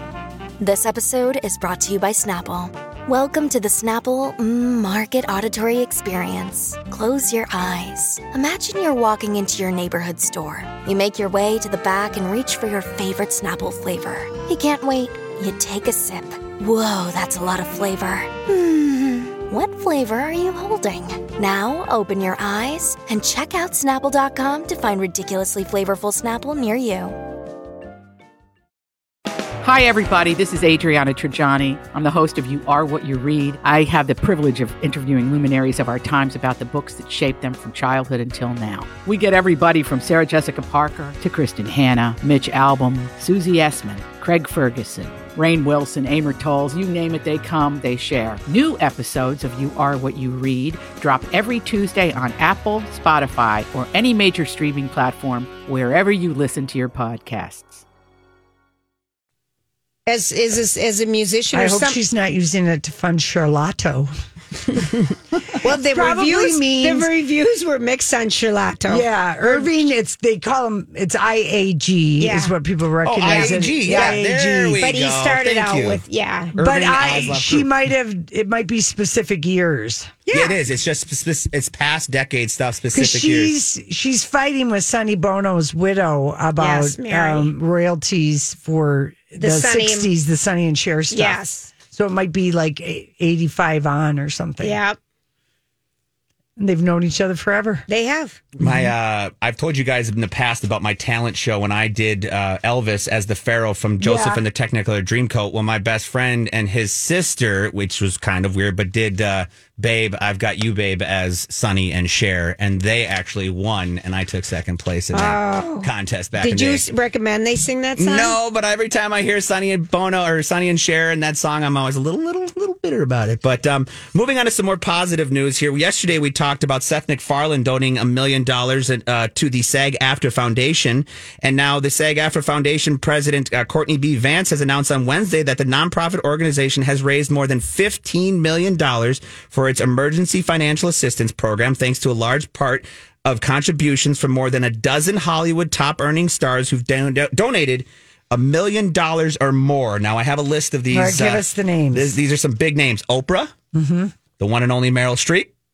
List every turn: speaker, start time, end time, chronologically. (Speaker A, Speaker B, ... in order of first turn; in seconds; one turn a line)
Speaker A: 0.6-27.2
Speaker B: 29.6-57.8
Speaker C: 60.0-62.0
Speaker D: 61.5-64.1
Speaker D: 65.6-67.1
Speaker C: 65.6-69.7
Speaker D: 68.9-74.8
Speaker C: 72.2-72.5
Speaker E: 73.0-76.0
Speaker C: 73.3-74.2
Speaker C: 74.8-76.5
Speaker E: 76.5-77.7
Speaker D: 76.6-80.2
Speaker C: 80.2-80.5
Speaker E: 80.3-83.5
Speaker D: 82.9-94.8
Speaker C: 86.6-87.5
Speaker C: 89.4-90.1
Speaker C: 91.1-91.7
Speaker C: 94.6-95.0
Speaker D: 96.6-97.8
Speaker C: 97.9-98.4
Speaker E: 98.6-116.8
Speaker D: 98.6-98.9
Speaker C: 104.0-104.4
Speaker C: 115.1-118.3
Speaker E: 118.0-153.5
Speaker D: 150.9-152.1
Speaker D: 153.7-154.1
Speaker E: 154.4-155.5